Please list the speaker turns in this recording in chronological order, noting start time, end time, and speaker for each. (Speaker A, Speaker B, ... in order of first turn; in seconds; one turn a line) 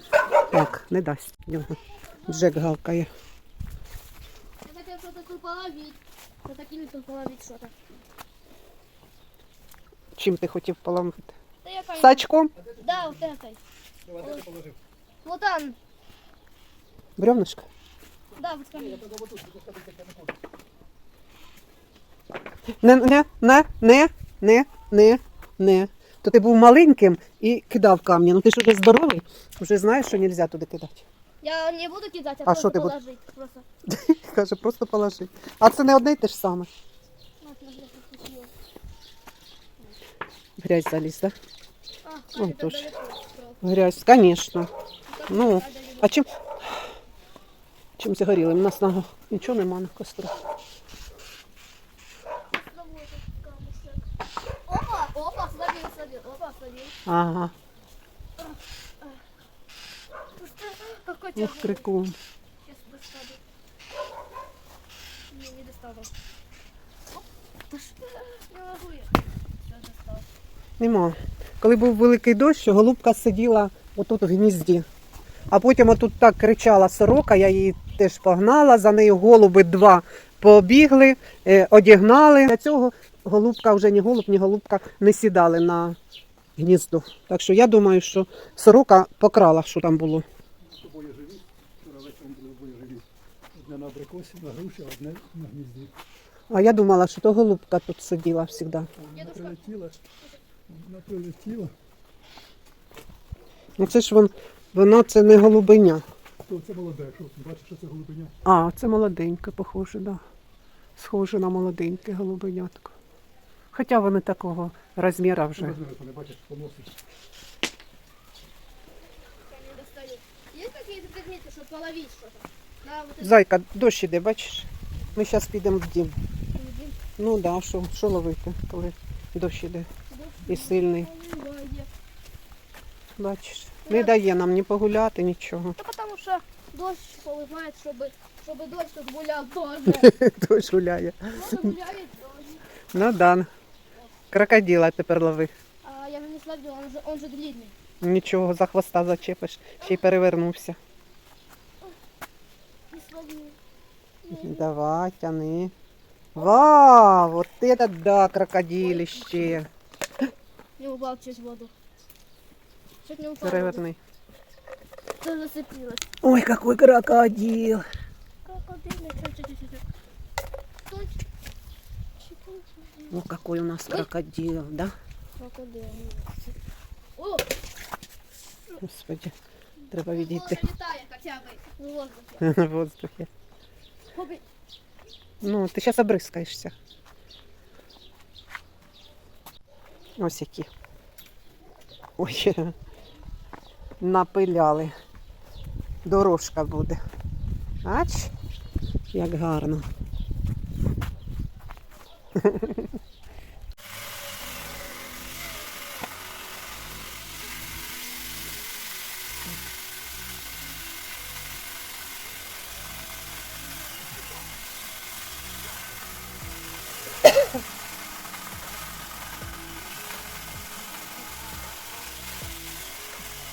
Speaker A: 0.5-3.1
Speaker B: 4.6-7.7
Speaker A: 10.2-11.3
Speaker B: 11.6-12.2
Speaker A: 12.0-12.5
Speaker B: 12.8-13.6
Speaker C: 14.1-14.7
Speaker B: 14.2-14.5
Speaker B: 15.2-15.8
Speaker A: 17.2-17.6
Speaker B: 18.4-19.0
Speaker C: 18.8-20.3
Speaker A: 22.8-31.1
Speaker B: 31.4-33.6
Speaker A: 32.5-32.9
Speaker A: 33.9-36.7
Speaker B: 37.4-38.5
Speaker A: 40.6-41.3
Speaker B: 42.0-43.6
Speaker A: 42.4-42.9
Speaker A: 43.6-44.7
Speaker B: 45.1-46.1
Speaker A: 45.3-46.3
Speaker A: 48.0-50.4
Speaker B: 52.5-54.0
Speaker B: 54.7-57.0
Speaker A: 57.0-57.5
Speaker B: 58.4-59.2
Speaker B: 60.4-61.9
Speaker A: 61.4-62.1
Speaker B: 62.6-63.4
Speaker B: 65.3-66.1
Speaker B: 67.7-70.2
Speaker A: 70.8-74.8
Speaker A: 75.5-86.0
Speaker A: 86.6-90.2
Speaker C: 90.7-93.0
Speaker C: 93.6-95.9
Speaker A: 96.5-98.9
Speaker C: 99.0-100.0
Speaker B: 99.1-99.6
Speaker C: 100.7-101.7
Speaker A: 103.8-106.0
Speaker C: 106.5-108.3
Speaker A: 108.4-110.2
Speaker A: 111.0-112.9
Speaker A: 113.7-115.8
Speaker C: 115.6-117.0
Speaker B: 119.4-123.4
Speaker A: 123.2-126.2
Speaker B: 126.5-127.0
Speaker A: 127.2-129.9
Speaker B: 130.1-131.9
Speaker A: 130.5-131.1
Speaker A: 133.2-135.8
Speaker B: 133.9-134.2
Speaker B: 135.8-140.1
Speaker A: 139.9-141.7
Speaker B: 141.3-142.6
Speaker A: 142.9-143.5
Speaker A: 144.3-145.5
Speaker B: 145.8-147.7
Speaker A: 148.0-150.8
Speaker B: 152.9-153.6
Speaker B: 154.2-154.7
Speaker A: 154.3-155.7
Speaker A: 156.3-159.7
Speaker B: 158.8-159.6
Speaker B: 160.8-161.7
Speaker B: 163.0-163.8
Speaker A: 163.4-164.0
Speaker B: 165.2-166.1
Speaker A: 166.2-167.8
Speaker B: 168.4-169.8
Speaker B: 170.8-171.2
Speaker B: 172.2-173.1
Speaker A: 173.1-174.9
Speaker B: 175.4-176.6
Speaker B: 177.2-177.5
Speaker A: 178.8-179.3
Speaker A: 179.9-180.6
Speaker B: 180.0-182.4
Speaker A: 182.4-183.3
Speaker B: 184.1-184.4
Speaker A: 185.4-186.7
Speaker A: 190.2-190.7
Speaker A: 192.2-192.7
Speaker A: 194.0-194.9
Speaker A: 196.0-197.0
Speaker A: 197.8-198.3
Speaker A: 199.1-199.8
Speaker A: 202.4-202.8